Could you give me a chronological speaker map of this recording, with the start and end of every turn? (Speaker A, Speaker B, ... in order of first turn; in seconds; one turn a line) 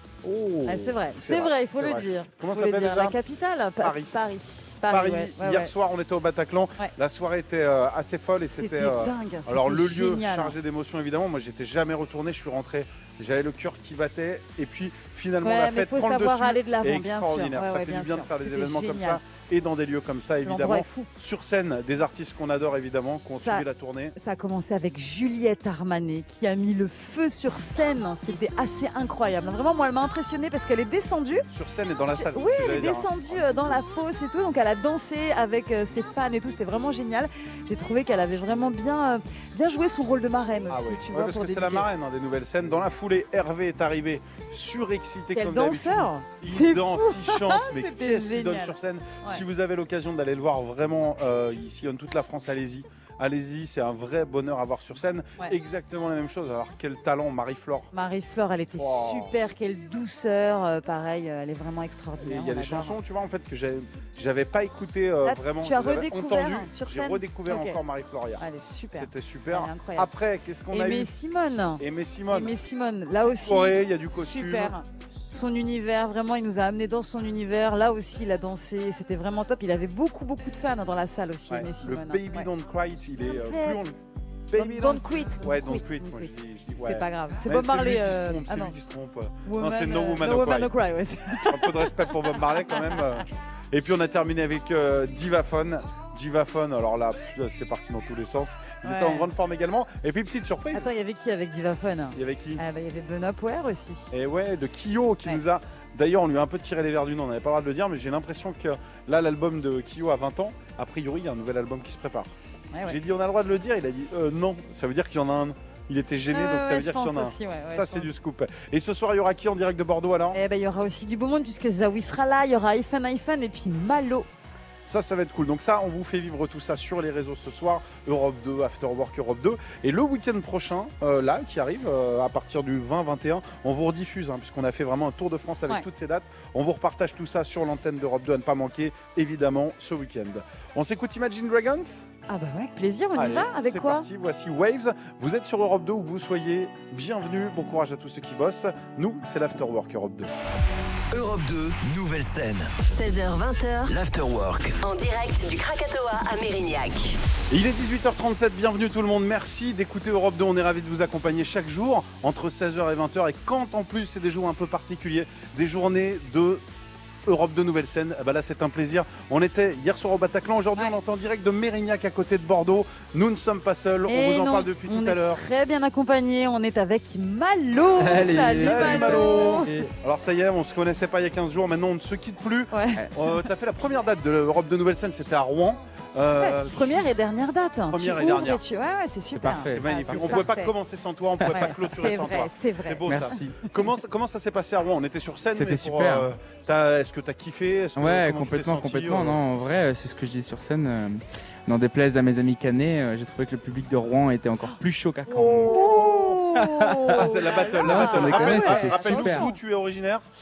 Speaker A: 0.2-3.2
Speaker B: 0.7-5.7
Speaker A: 3.8-4.3
Speaker A: 4.9-24.1
Speaker B: 8.6-10.6
Speaker B: 15.4-19.2
Speaker B: 20.4-21.1
Speaker B: 24.2-31.5
Speaker A: 31.5-33.8
Speaker B: 32.1-41.9
Speaker A: 40.7-57.9
Speaker B: 45.4-49.4
Speaker B: 57.9-63.0
Speaker A: 58.8-59.3
Speaker A: 62.2-71.1
Speaker B: 65.2-67.8
Speaker B: 68.4-70.1
Speaker B: 70.7-82.5
Speaker A: 71.8-72.5
Speaker A: 73.4-74.7
Speaker A: 81.5-84.0
Speaker B: 83.2-83.8
Speaker A: 84.5-90.7
Speaker B: 84.5-88.8
Speaker B: 89.5-93.2
Speaker A: 91.5-100.9
Speaker B: 98.8-99.3
Speaker B: 100.7-104.1
Speaker A: 102.2-102.6
Speaker A: 104.1-112.3
Speaker B: 112.7-113.0
Speaker A: 112.8-120.4
Speaker B: 116.3-118.1
Speaker B: 120.3-124.3
Speaker A: 124.9-142.0
Speaker B: 142.3-144.1
Speaker A: 143.2-150.3
Speaker C: 151.1-153.2
Speaker D: 152.9-153.9
Speaker C: 153.9-154.8
Speaker D: 154.8-157.2
Speaker A: 157.5-166.6
Speaker A: 167.3-175.4
Speaker B: 174.1-179.8
Speaker E: 178.0-179.9
Speaker A: 178.3-187.1
Speaker B: 182.7-183.1
Speaker B: 186.4-190.7
Speaker A: 187.9-188.6
Speaker E: 189.3-190.4
Speaker A: 189.7-199.4
Speaker E: 191.4-191.7
Speaker B: 191.4-193.5
Speaker E: 193.1-193.6
Speaker E: 195.6-196.3
Speaker E: 198.0-205.8
Speaker B: 204.6-209.6
Speaker A: 205.3-206.4
Speaker E: 206.6-207.2
Speaker A: 207.1-210.2
Speaker E: 207.8-209.5